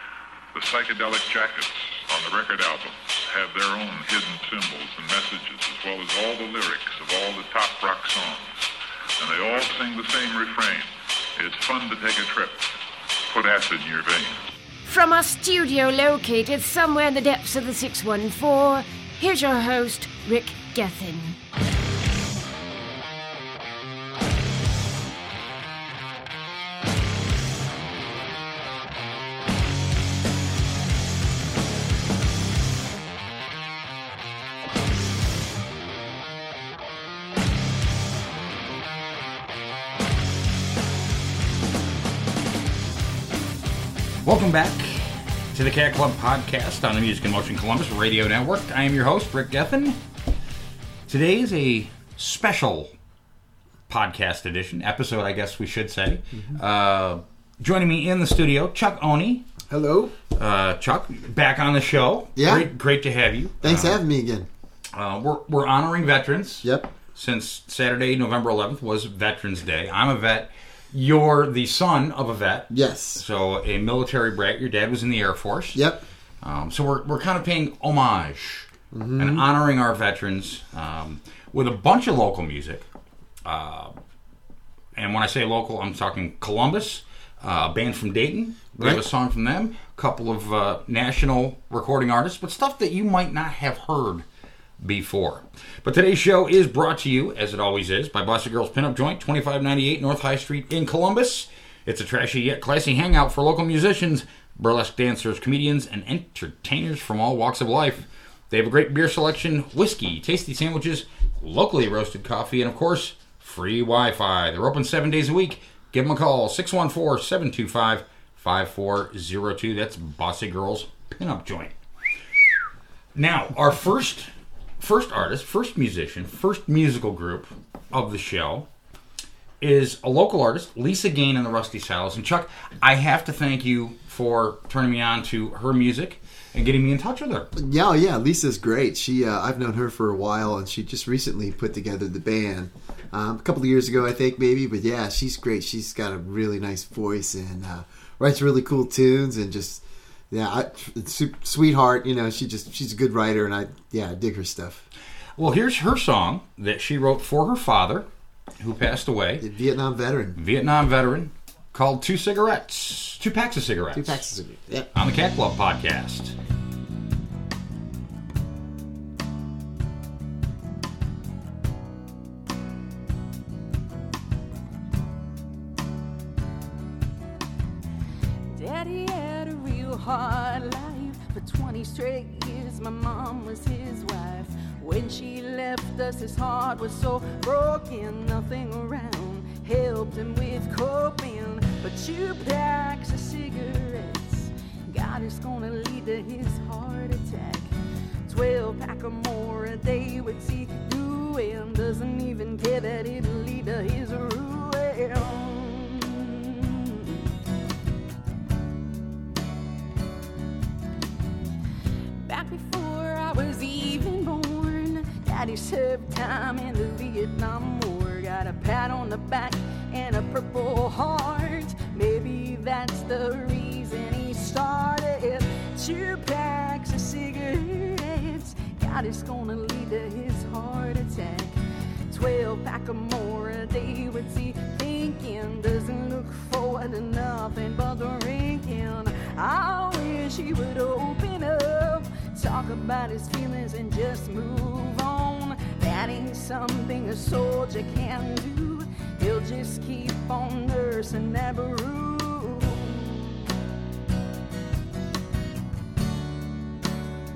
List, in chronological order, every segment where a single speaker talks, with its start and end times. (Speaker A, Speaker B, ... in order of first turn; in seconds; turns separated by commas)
Speaker A: 0.5-8.5, Speaker A: 9.2-12.8, Speaker A: 13.3-14.4, Speaker B: 14.9-21.4, Speaker C: 44.2-50.0, Speaker C: 51.1-52.9, Speaker C: 53.9-59.5, Speaker D: 56.3-56.6, Speaker D: 59.7-60.1, Speaker C: 60.4-64.0, Speaker D: 62.4-62.7, Speaker D: 63.6-64.5, Speaker C: 64.9-75.8, Speaker D: 66.6-66.9, Speaker D: 72.7-73.2, Speaker D: 75.7-76.0, Speaker C: 76.4-82.9, Speaker D: 78.9-79.5, Speaker C: 83.5-84.0, Speaker C: 85.0-94.2, Speaker C: 94.8-121.7, Speaker C: 123.2-128.7, Speaker C: 129.6-137.5, Speaker D: 137.6-154.9, Speaker C: 155.4-158.1, Speaker C: 158.6-159.4, Speaker D: 159.4-160.4, Speaker C: 160.4-164.3, Speaker D: 163.9-164.9, Speaker C: 164.9-166.3, Speaker E: 178.5-197.7, Speaker E: 198.3-207.2, Speaker E: 212.2-253.5